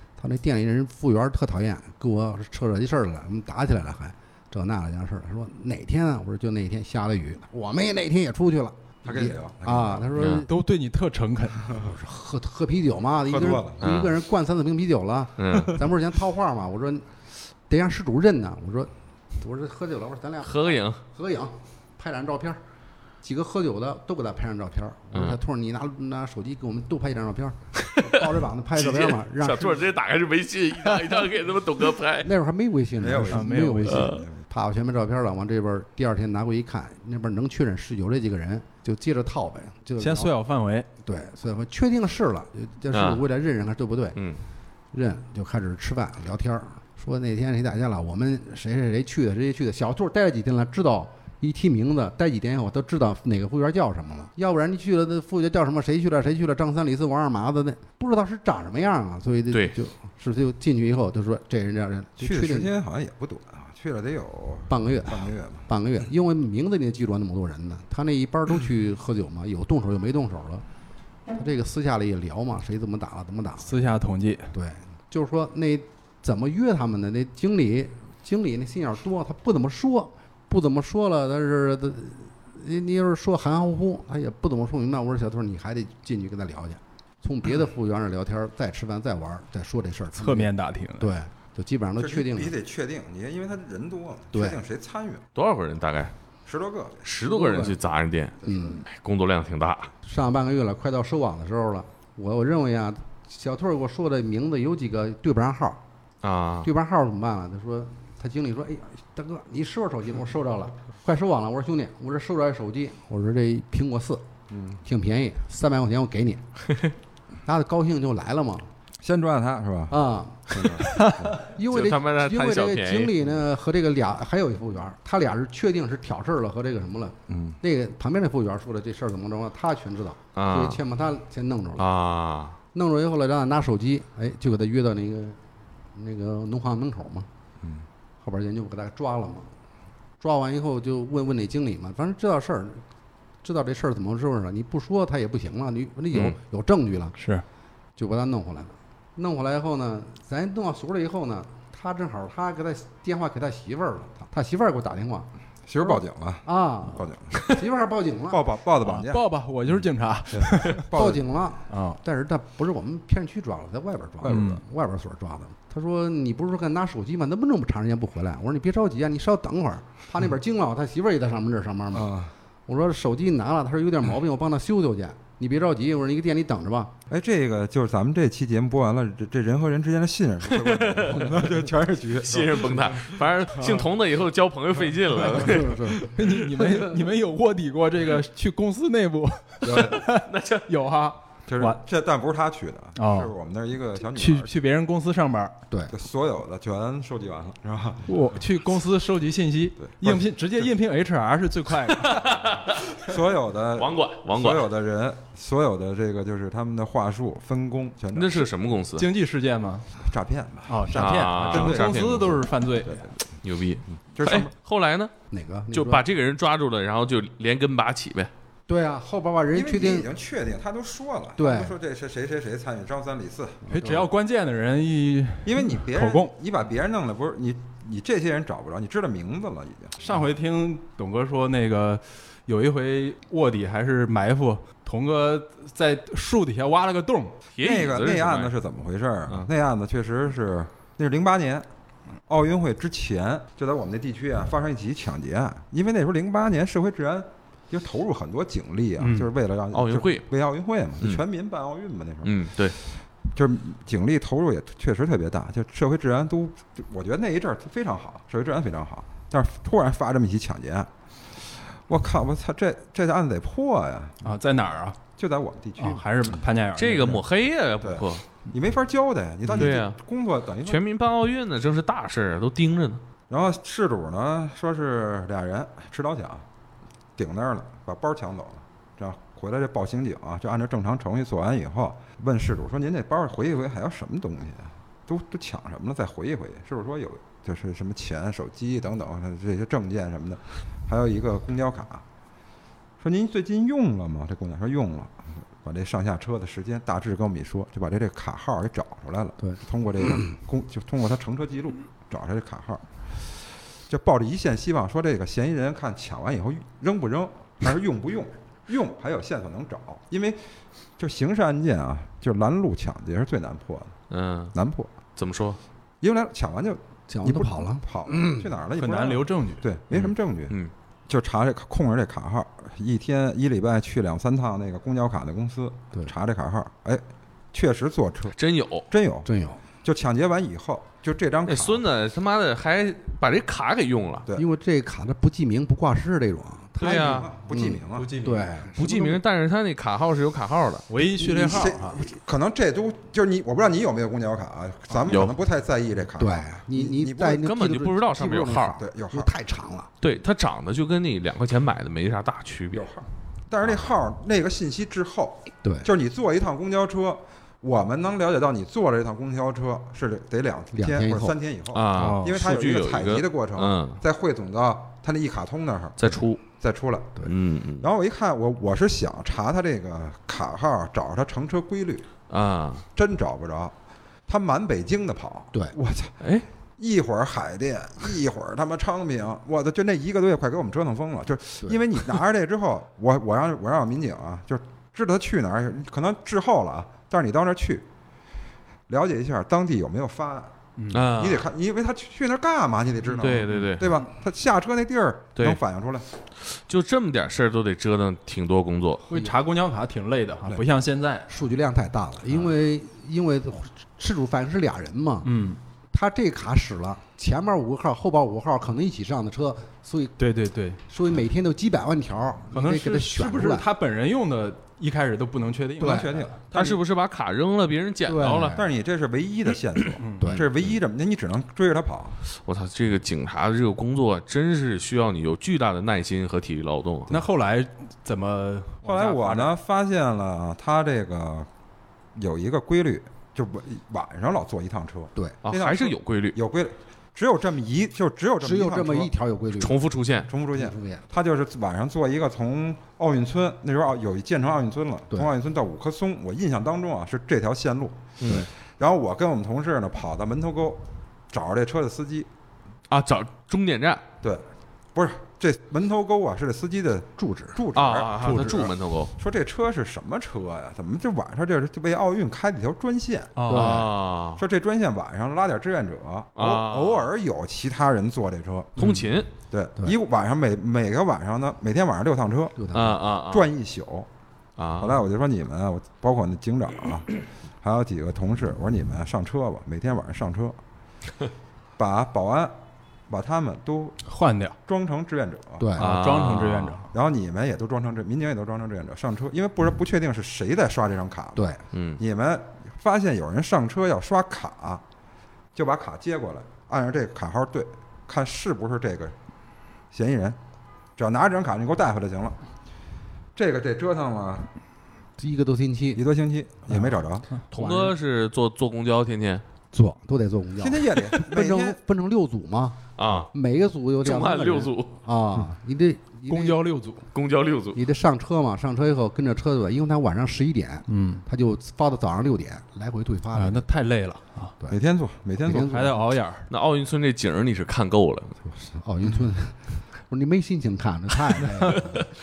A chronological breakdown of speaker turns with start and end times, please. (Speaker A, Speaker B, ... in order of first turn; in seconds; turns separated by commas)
Speaker A: 0.2-10.5, Speaker B: 9.0-10.1, Speaker C: 10.2-10.4, Speaker D: 10.2-11.8, Speaker A: 11.8-22.6, Speaker B: 13.3-13.8, Speaker C: 13.8-14.2, Speaker C: 15.4-15.8, Speaker C: 20.4-21.0, Speaker A: 23.2-29.9, Speaker C: 28.8-32.3, Speaker A: 32.2-40.3, Speaker B: 33.0-34.4, Speaker D: 33.3-34.1, Speaker C: 33.9-34.2, Speaker D: 40.0-40.9, Speaker A: 41.0-44.2, Speaker C: 42.9-43.2, Speaker C: 44.2-44.4, Speaker A: 44.9-62.7, Speaker B: 62.2-65.7, Speaker A: 64.7-70.6, Speaker A: 71.3-73.8, Speaker D: 73.6-74.5, Speaker A: 74.5-92.5, Speaker D: 90.2-91.1, Speaker B: 92.0-95.3, Speaker A: 94.3-94.6, Speaker C: 95.3-96.1, Speaker B: 96.5-97.0, Speaker C: 97.0-99.9, Speaker A: 97.3-97.8, Speaker A: 98.4-98.8, Speaker A: 100.0-105.8, Speaker C: 106.2-106.7, Speaker A: 106.6-114.2, Speaker B: 114.5-114.8, Speaker A: 114.8-116.4, Speaker A: 117.5-118.7, Speaker B: 119.0-120.0, Speaker A: 119.9-131.9, Speaker B: 120.5-121.4, Speaker D: 120.9-121.3, Speaker C: 121.6-123.1, Speaker B: 127.3-127.6, Speaker C: 130.3-130.8, Speaker C: 131.8-132.6, Speaker A: 132.7-135.4, Speaker A: 135.9-137.3, Speaker A: 138.2-139.5, Speaker A: 140.2-142.8, Speaker A: 143.4-147.2, Speaker D: 147.2-147.4, Speaker A: 148.0-155.3, Speaker B: 155.7-157.5, Speaker A: 155.8-158.4, Speaker B: 158.3-159.3, Speaker D: 158.8-161.0, Speaker B: 160.3-161.2, Speaker A: 160.9-172.1, Speaker D: 161.7-162.0, Speaker B: 164.2-164.6, Speaker D: 164.3-164.6, Speaker B: 171.9-172.3, Speaker A: 172.7-176.9, Speaker B: 177.1-183.9, Speaker C: 180.5-181.4, Speaker C: 182.2-186.1, Speaker B: 185.3-185.7, Speaker A: 185.4-186.0, Speaker D: 186.0-191.8, Speaker B: 189.6-190.2, Speaker C: 190.1-190.7, Speaker B: 191.5-194.5, Speaker D: 193.0-193.3, Speaker D: 194.0-195.6, Speaker B: 195.9-198.2, Speaker D: 198.1-202.3, Speaker B: 199.8-200.3, Speaker C: 201.9-203.0, Speaker B: 203.0-208.5, Speaker C: 203.8-204.7, Speaker C: 208.1-209.1, Speaker D: 209.0-209.9, Speaker B: 210.1-212.2, Speaker D: 210.7-213.1, Speaker C: 210.9-212.4, Speaker B: 212.8-213.1, Speaker C: 213.4-215.1, Speaker B: 214.1-214.5, Speaker A: 215.3-216.0, Speaker C: 215.7-218.3, Speaker A: 218.7-220.1, Speaker B: 219.5-224.1, Speaker A: 221.4-221.8, Speaker A: 223.7-224.0, Speaker D: 223.7-226.3, Speaker B: 225.4-230.1, Speaker D: 230.0-237.4, Speaker C: 237.6-238.5, Speaker B: 237.6-241.7, Speaker B: 242.3-252.3, Speaker D: 249.0-249.3, Speaker C: 249.7-250.2, Speaker C: 252.2-252.8, Speaker B: 253.3-264.3, Speaker D: 264.2-265.0, Speaker B: 265.2-266.4, Speaker D: 265.8-267.2, Speaker C: 266.8-268.2, Speaker B: 267.8-270.8, Speaker C: 269.5-270.0, Speaker C: 270.6-273.0, Speaker B: 273.3-276.4, Speaker B: 277.2-292.0, Speaker B: 293.0-310.4, Speaker B: 311.0-314.0, Speaker C: 314.1-314.6, Speaker B: 314.5-314.9, Speaker C: 315.2-315.6, Speaker B: 316.0-320.6, Speaker A: 317.1-318.5, Speaker D: 318.8-319.6, Speaker C: 319.9-320.7, Speaker B: 321.1-328.4, Speaker C: 328.4-328.9, Speaker B: 328.9-329.3, Speaker A: 329.2-329.6, Speaker B: 329.8-331.9, Speaker C: 331.5-334.3, Speaker A: 334.4-339.2, Speaker C: 336.8-337.3, Speaker B: 336.9-338.1, Speaker D: 337.9-338.7, Speaker C: 338.8-340.9, Speaker D: 340.9-342.0, Speaker A: 341.2-341.7, Speaker B: 341.3-347.4, Speaker C: 345.1-345.4, Speaker A: 346.2-349.9, Speaker C: 347.3-348.8, Speaker B: 348.8-349.3, Speaker C: 350.0-352.9, Speaker B: 352.7-367.3, Speaker A: 360.7-361.4, Speaker C: 361.7-364.0, Speaker D: 362.0-362.5, Speaker C: 366.0-366.4, Speaker C: 367.2-367.9, Speaker B: 367.8-372.1, Speaker C: 372.3-372.9, Speaker B: 373.0-373.7, Speaker B: 374.3-376.2, Speaker B: 376.8-387.9, Speaker B: 388.9-390.5, Speaker D: 390.8-391.1, Speaker C: 390.9-391.4, Speaker B: 391.1-396.1, Speaker C: 393.2-393.9, Speaker C: 396.5-399.1, Speaker D: 399.1-401.3, Speaker A: 401.3-405.3, Speaker D: 405.2-405.6, Speaker A: 405.9-410.2, Speaker D: 410.2-410.8, Speaker A: 410.9-413.7, Speaker D: 412.5-416.4, Speaker A: 415.8-416.1, Speaker B: 415.8-416.8, Speaker C: 416.5-418.6, Speaker A: 418.1-418.7, Speaker B: 418.5-422.2, Speaker D: 420.0-420.5, Speaker C: 422.3-427.2, Speaker D: 427.1-429.5, Speaker B: 428.8-431.5, Speaker B: 432.2-439.1, Speaker C: 435.4-436.4, Speaker A: 438.4-439.8, Speaker C: 439.6-440.3, Speaker B: 440.3-452.3, Speaker A: 440.6-441.0, Speaker C: 448.2-448.5, Speaker C: 452.9-454.0, Speaker B: 454.2-463.4, Speaker A: 457.2-457.6, Speaker C: 457.8-459.1, Speaker D: 463.4-463.9, Speaker A: 463.5-463.9, Speaker C: 463.5-464.4, Speaker B: 464.4-468.9, Speaker C: 466.4-467.1, Speaker C: 468.8-469.3, Speaker A: 468.8-469.1, Speaker B: 469.5-472.6, Speaker A: 472.6-473.0, Speaker C: 472.7-473.5, Speaker B: 473.3-474.1, Speaker C: 474.6-475.0, Speaker B: 474.8-477.1, Speaker B: 477.6-480.6, Speaker B: 481.8-482.6, Speaker B: 483.1-484.0, Speaker D: 484.1-484.6, Speaker B: 484.7-485.7, Speaker A: 485.6-485.9, Speaker D: 485.8-486.9, Speaker C: 485.8-486.8, Speaker B: 486.9-491.5, Speaker C: 491.7-492.0, Speaker B: 492.0-494.8, Speaker B: 495.6-499.1, Speaker B: 499.9-500.4, Speaker B: 501.0-502.4, Speaker B: 503.4-504.5, Speaker A: 505.2-506.0, Speaker B: 505.9-507.3, Speaker C: 507.5-509.4, Speaker A: 507.6-507.9, Speaker A: 509.7-512.8, Speaker B: 510.6-511.8, Speaker C: 513.0-513.3, Speaker A: 513.3-516.6, Speaker C: 514.0-514.9, Speaker D: 516.3-517.0, Speaker C: 517.1-517.8, Speaker A: 517.7-523.6, Speaker D: 520.9-521.2, Speaker D: 523.3-524.5, Speaker B: 524.7-525.7, Speaker A: 525.4-526.0, Speaker D: 525.6-526.5, Speaker C: 526.5-528.4, Speaker A: 528.5-532.1, Speaker C: 531.7-532.1